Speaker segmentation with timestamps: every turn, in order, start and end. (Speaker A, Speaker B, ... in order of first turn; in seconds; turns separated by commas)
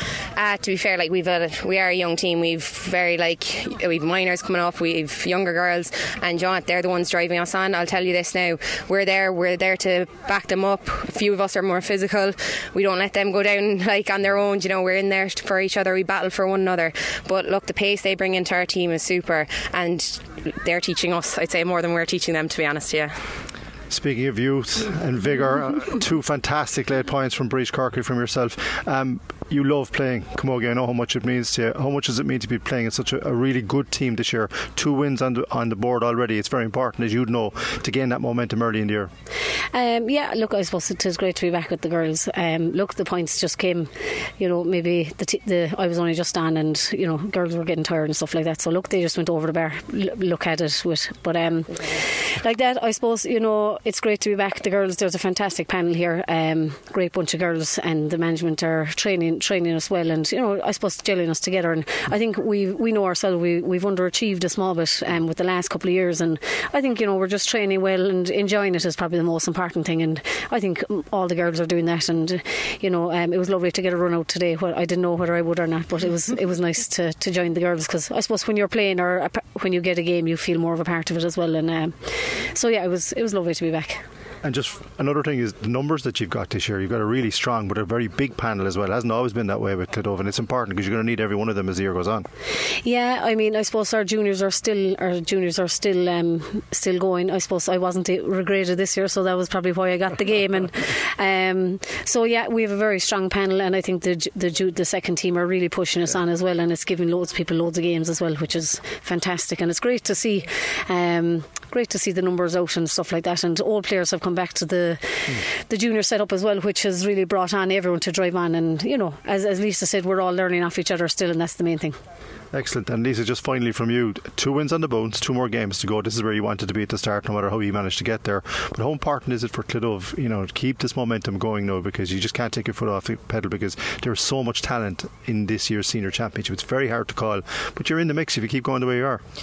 Speaker A: 0.3-23.1, Speaker B: 23.9-39.1, Speaker C: 39.7-84.0, Speaker B: 84.4-92.3, Speaker C: 92.8-122.0, Speaker B: 122.5-139.2